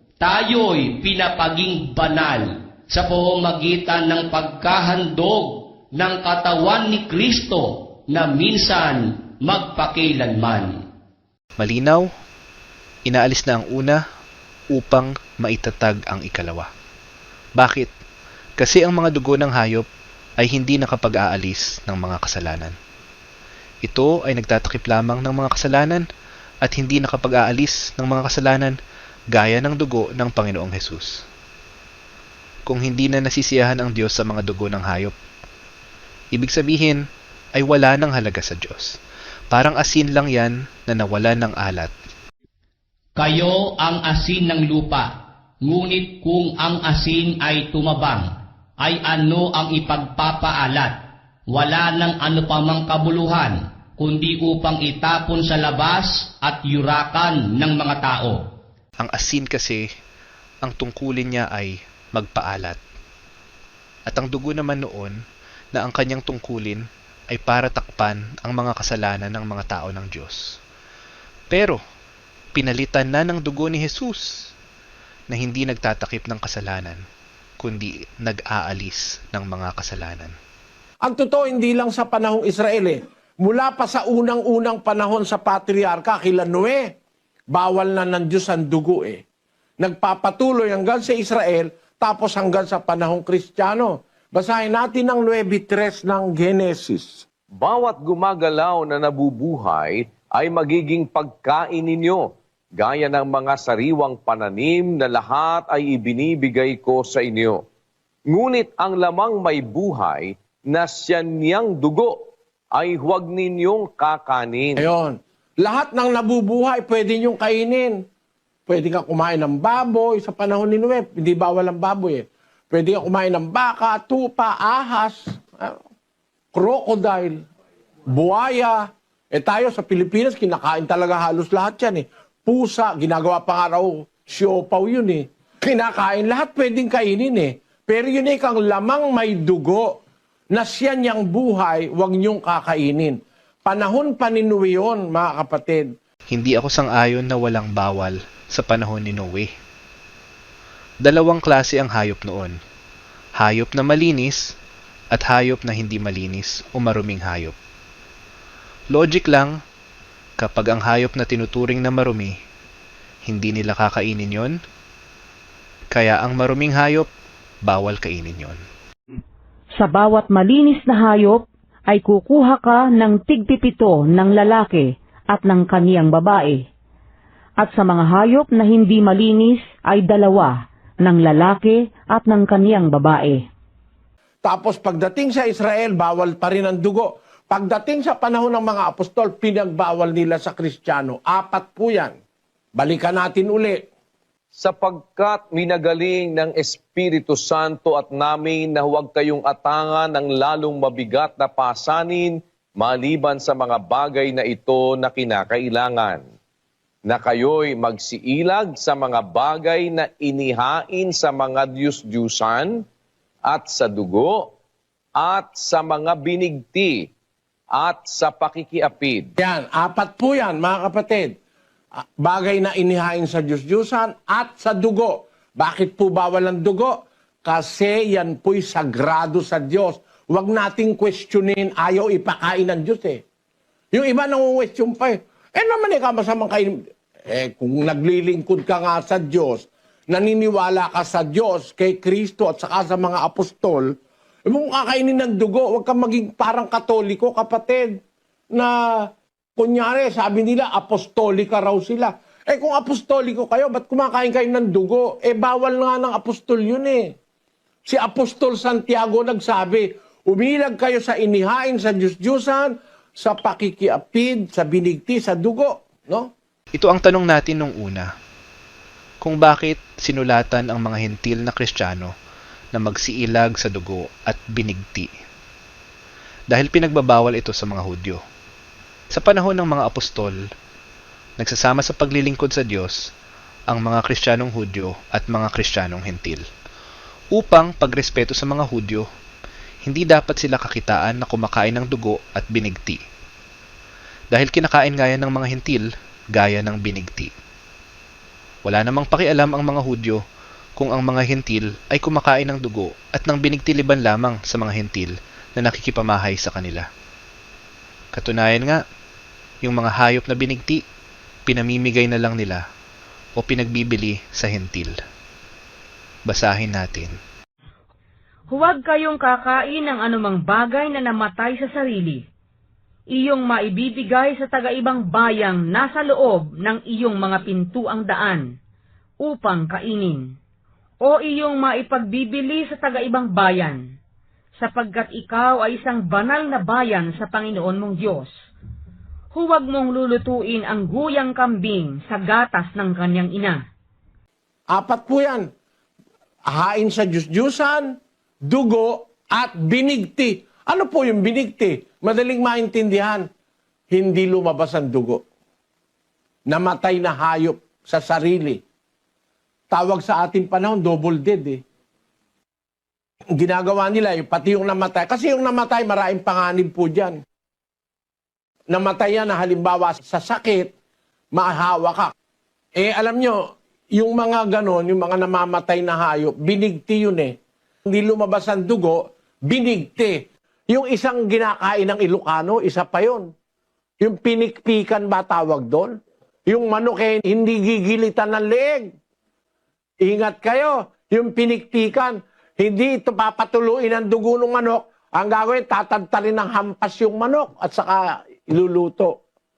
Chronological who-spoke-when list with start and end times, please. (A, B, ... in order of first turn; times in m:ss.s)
0:00.2-0:10.7 A
0:11.6-0:12.0 B
0:13.0-0:14.0 B
0:14.7-0:16.7 B
0:17.6-0:17.9 B
0:18.6-0:19.9 B
0:20.4-0:22.7 B
0:23.8-0:26.0 B
0:26.6-0:28.8 B
0:29.3-0:31.2 B
0:32.7-0:35.1 B
0:36.3-0:37.0 B
0:37.6-0:38.9 B
0:39.5-0:41.9 B
0:43.2-0:45.1 A
0:45.6-0:48.3 A
0:48.8-0:51.0 A
0:51.5-0:58.4 A
0:59.0-0:59.8 B
1:00.6-1:02.8 B
1:04.1-1:05.1 B
1:05.7-1:10.4 B
1:11.5-1:11.8 B
1:12.5-1:14.3 B
1:15.3-1:17.0 B
1:17.6-1:20.3 B
1:21.0-1:26.9 C
1:27.5-1:29.2 C
1:29.8-1:37.2 C
1:37.5-1:42.2 D
1:42.8-1:47.6 D
1:48.3-1:52.1 D
1:52.7-1:54.8 D
1:54.8-1:58.0 C
1:58.7-2:05.8 C
2:06.5-2:07.4 C
2:08.1-2:20.0 C
2:20.5-2:25.9 C
2:26.3-2:29.5 B
2:31.0-2:32.6 B
2:33.4-2:34.4 B
2:35.1-2:37.6 B
2:38.9-2:39.6 B
2:40.4-2:42.3 B
2:43.2-2:44.6 B
2:45.9-2:47.1 B
2:47.6-2:48.6 B
2:49.8-2:56.6 E
2:57.6-3:03.4 E
3:04.4-3:12.2 C
3:12.8-3:13.8 C
3:14.5-3:26.2 D
3:27.1-3:32.8 D
3:33.4-3:34.5 D
3:35.2-3:37.0 D
3:37.7-3:39.3 D
3:39.4-3:41.3 C
3:42.2-3:53.2 C
3:53.9-4:03.9 C
4:04.5-4:08.0 C
4:08.5-4:09.0 C
4:09.6-4:17.1 C
4:17.8-4:26.3 C
4:26.7-4:28.1 B
4:29.2-4:32.1 B
4:32.7-4:35.1 B
4:36.5-4:38.2 B
4:39.1-4:40.4 B
4:41.4-4:43.0 B
4:43.7-4:46.4 B
4:47.3-4:49.0 B
4:49.8-4:53.0 B
4:54.3-4:57.3 B
4:58.6-5:00.2 B
5:00.8-5:06.8 B
5:08.1-5:08.8 B
5:09.6-5:10.8 B
5:11.5-5:12.6 B
5:13.4-5:14.9 B
5:16.3-5:17.1 B
5:18.5-5:22.2 E
5:23.1-5:28.4 E
5:29.2-5:30.2 E
5:31.0-5:33.8 E
5:34.6-5:38.2 E
5:39.3-5:43.5 E
5:44.7-5:45.5 C
5:46.5-5:47.9 C
5:48.4-5:53.2 C
5:53.9-5:55.2 C
5:56.5-5:58.6 C
5:59.7-6:01.6 C
6:03.4-6:07.2 C
6:08.7-6:10.7 C
6:11.3-6:12.1 C
6:12.8-6:13.4 C
6:14.0-6:17.3 C
6:17.8-6:23.3 C
6:24.0-6:25.9 C
6:26.5-6:28.9 C
6:30.0-6:39.2 C